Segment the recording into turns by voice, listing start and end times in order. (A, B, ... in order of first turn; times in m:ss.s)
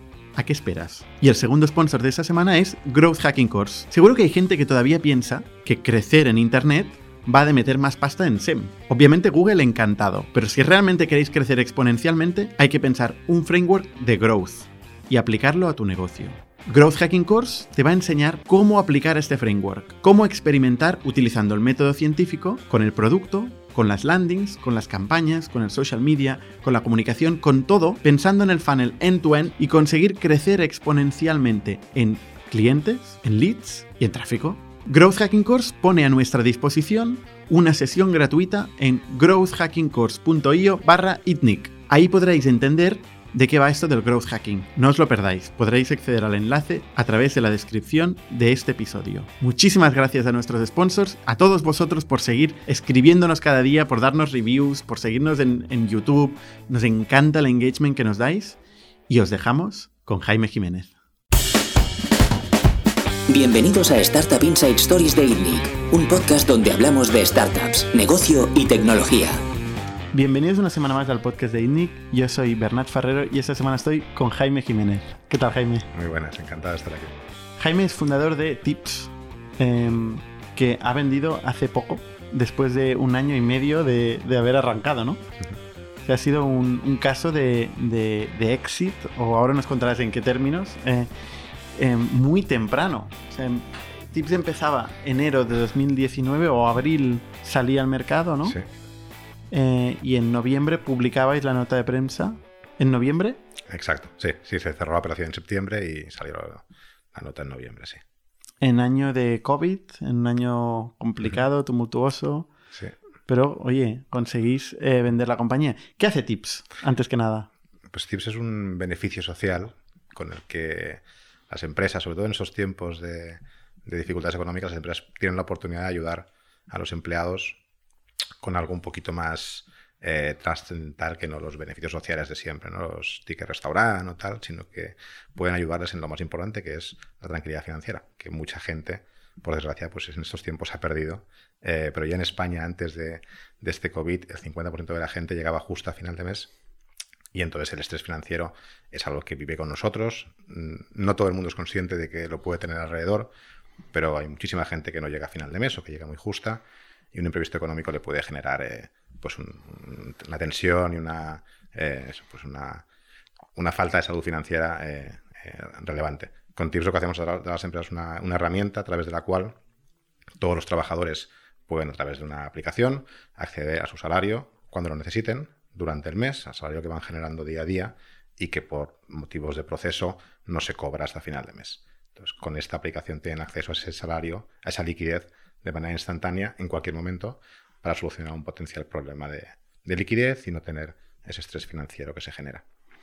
0:00.4-1:00.9 A
1:03.3-1:09.4 B
1:10.1-1:15.9 A
1:15.9-1:17.2 C
1:17.6-1:25.2 A
1:26.0-1:31.1 A
1:31.7-1:38.6 A
1:39.5-1:43.4 A
1:43.7-1:48.0 C
1:48.6-1:52.5 A
1:53.3-1:57.5 A
1:57.9-2:07.6 C
2:08.4-2:26.5 C
2:27.3-2:33.3 C
2:33.9-2:36.6 C
2:37.1-2:42.8 C
2:43.6-2:49.6 C
2:50.4-3:12.6 C